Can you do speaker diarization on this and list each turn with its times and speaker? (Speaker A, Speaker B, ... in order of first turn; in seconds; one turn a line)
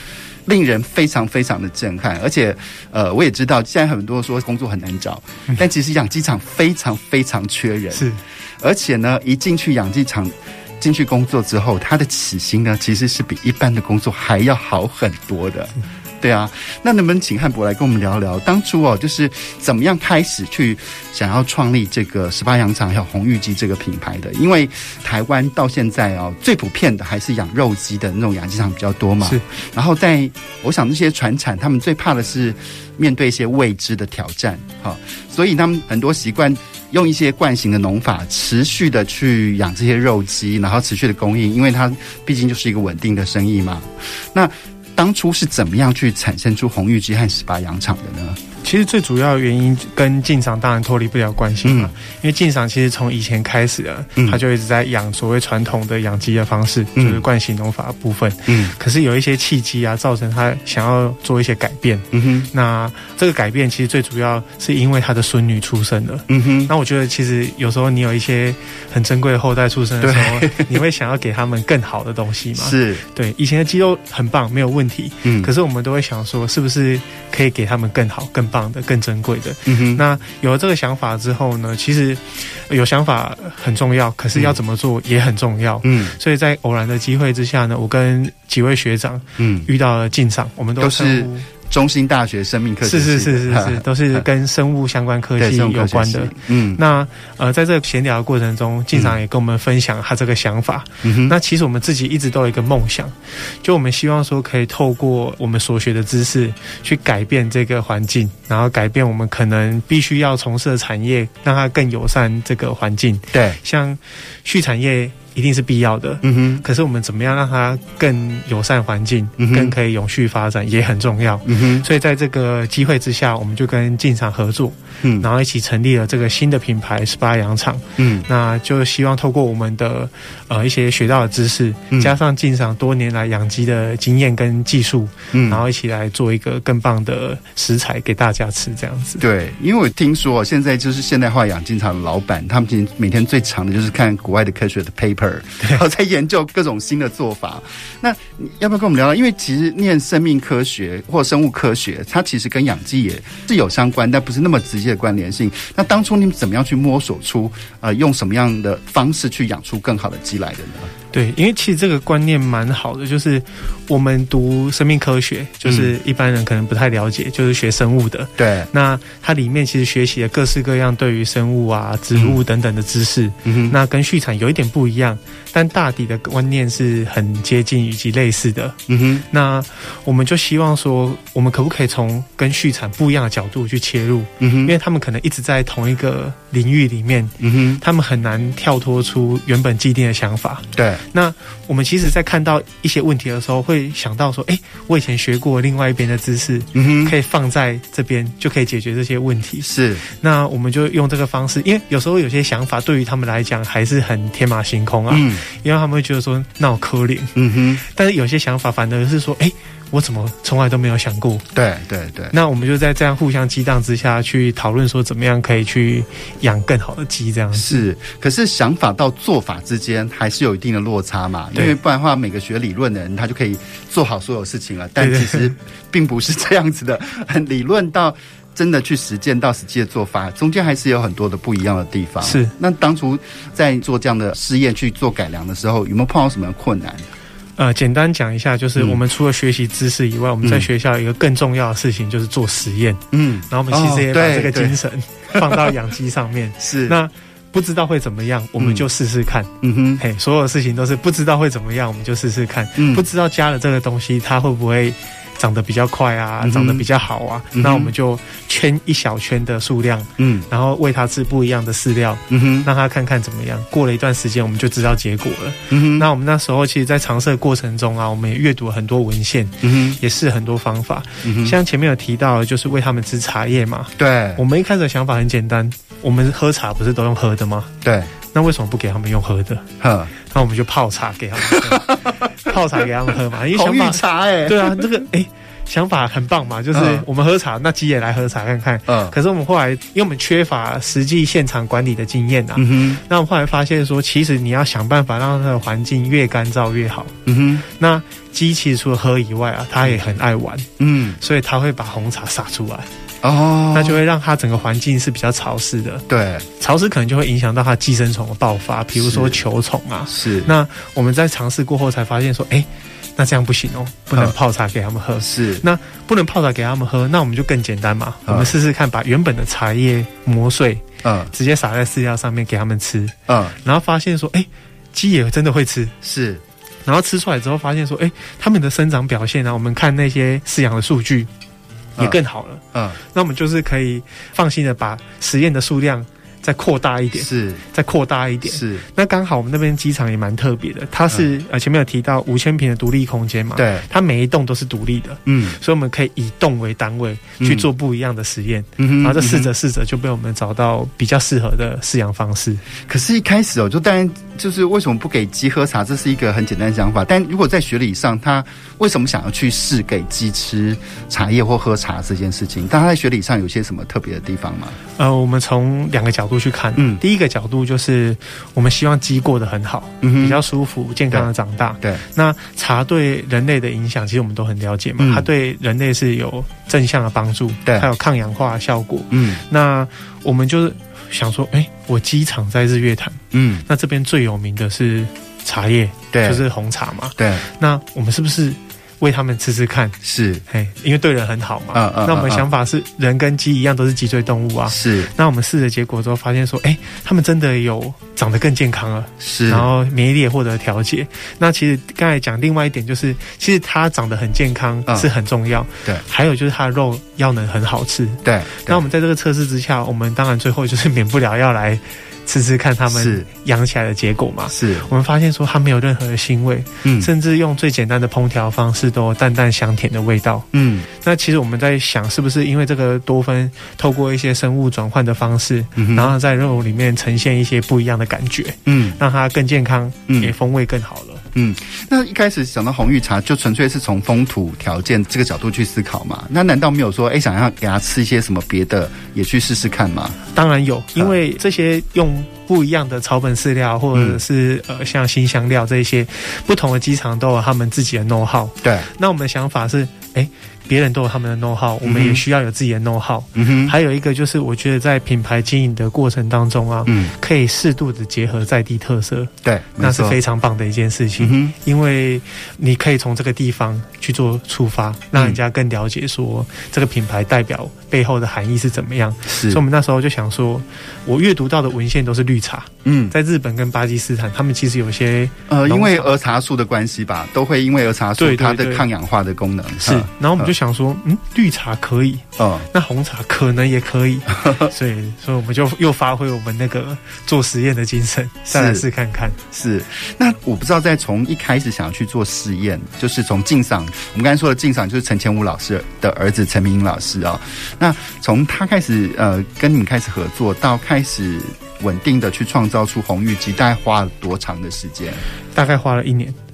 Speaker A: 0.5-48.4
Speaker B: 7.9-8.2
Speaker B: 48.6-91.5
Speaker A: 51.6-51.9
Speaker A: 57.0-57.2
Speaker A: 58.5-58.7
Speaker A: 62.1-62.5
Speaker A: 66.3-66.7
Speaker A: 70.0-70.7
Speaker A: 72.6-73.0
Speaker A: 75.2-75.5
Speaker A: 79.7-80.0
Speaker A: 85.8-86.1
Speaker A: 89.4-89.7
Speaker A: 90.8-94.2
Speaker B: 92.8-139.2
Speaker A: 95.4-96.8
Speaker A: 101.0-101.4
Speaker A: 113.3-113.6
Speaker A: 116.2-116.6
Speaker A: 119.4-119.7
Speaker A: 121.5-121.8
Speaker A: 125.0-125.3
Speaker A: 128.0-128.2
Speaker A: 135.3-135.6
Speaker A: 139.2-160.9
Speaker B: 161.1-178.8
Speaker A: 165.6-165.9
Speaker A: 168.4-168.7
Speaker A: 172.1-172.4
Speaker A: 173.4-173.8
Speaker A: 178.9-179.2
Speaker B: 179.3-207.3
Speaker A: 184.4-184.7
Speaker A: 187.4-187.8
Speaker A: 190.7-191.0
Speaker A: 196.7-197.1
Speaker A: 199.6-200.0
Speaker A: 205.1-205.4
Speaker A: 207.3-207.8
Speaker B: 207.8-211.4
Speaker A: 211.5-212.3
Speaker B: 212.3-217.8
Speaker A: 217.5-237.1
Speaker B: 225.0-225.5
Speaker B: 232.2-232.5
Speaker B: 237.6-277.7
Speaker A: 238.8-239.0
Speaker A: 240.4-240.7
Speaker A: 243.1-244.8
Speaker A: 245.3-245.7
Speaker A: 246.6-247.0
Speaker A: 248.6-248.8
Speaker A: 249.6-250.0
Speaker A: 252.8-253.1
Speaker A: 256.4-256.8
Speaker A: 257.5-257.9
Speaker A: 260.2-260.5
Speaker A: 262.3-262.7
Speaker A: 265.7-266.1
Speaker A: 269.6-270.0
Speaker A: 271.2-271.6
Speaker A: 274.0-274.4
Speaker A: 277.8-278.1
Speaker B: 278.3-279.6
Speaker A: 279.8-280.1
Speaker B: 280.2-297.1
Speaker A: 281.4-282.5
Speaker A: 283.5-284.9
Speaker A: 286.7-287.1
Speaker A: 288.9-289.1
Speaker A: 292.6-293.0
Speaker A: 297.2-297.6
Speaker B: 297.7-300.7
Speaker A: 300.8-301.2
Speaker B: 301.2-302.9
Speaker A: 303.2-304.0
Speaker B: 303.7-306.0
Speaker A: 306.1-306.4
Speaker B: 306.6-325.9
Speaker A: 308.9-309.4
Speaker A: 310.1-310.5
Speaker A: 315.2-315.6
Speaker A: 318.2-318.5
Speaker A: 321.0-321.3
Speaker A: 323.3-323.6
Speaker A: 326.0-326.4
Speaker B: 326.8-331.3
Speaker B: 332.0-352.6
Speaker A: 337.2-337.6
Speaker A: 338.4-338.8
Speaker A: 343.6-343.9
Speaker A: 345.2-345.6
Speaker A: 347.4-347.6
Speaker A: 348.8-349.5
Speaker A: 352.8-364.8
Speaker B: 365.0-389.9
Speaker A: 366.8-367.0
Speaker A: 370.0-370.4
Speaker A: 375.0-375.3
Speaker A: 379.1-379.4
Speaker A: 383.3-383.6
Speaker A: 386.1-386.4
Speaker A: 387.2-387.4
Speaker A: 390.0-390.4
Speaker B: 390.5-431.2
Speaker A: 391.7-392.4
Speaker A: 394.7-395.1
Speaker A: 399.2-399.7
Speaker A: 408.2-408.8
Speaker A: 412.9-413.2
Speaker A: 414.5-414.9
Speaker A: 416.8-417.1
Speaker A: 420.5-420.9
Speaker A: 425.8-426.1
Speaker A: 428.6-429.0
Speaker A: 431.3-440.2
Speaker B: 440.3-476.1
Speaker A: 443.9-444.2
Speaker A: 448.6-448.9
Speaker A: 451.8-452.2
Speaker A: 453.4-453.7
Speaker A: 456.9-457.1
Speaker A: 459.4-460.2
Speaker A: 461.2-461.5
Speaker A: 469.2-469.6
Speaker A: 472.8-473.1
Speaker A: 475.5-480.5
Speaker B: 478.2-478.9
Speaker B: 479.8-489.4
Speaker A: 482.4-482.7
Speaker A: 484.3-484.7
Speaker A: 488.5-488.8
Speaker A: 489.5-505.2
Speaker B: 505.5-506.4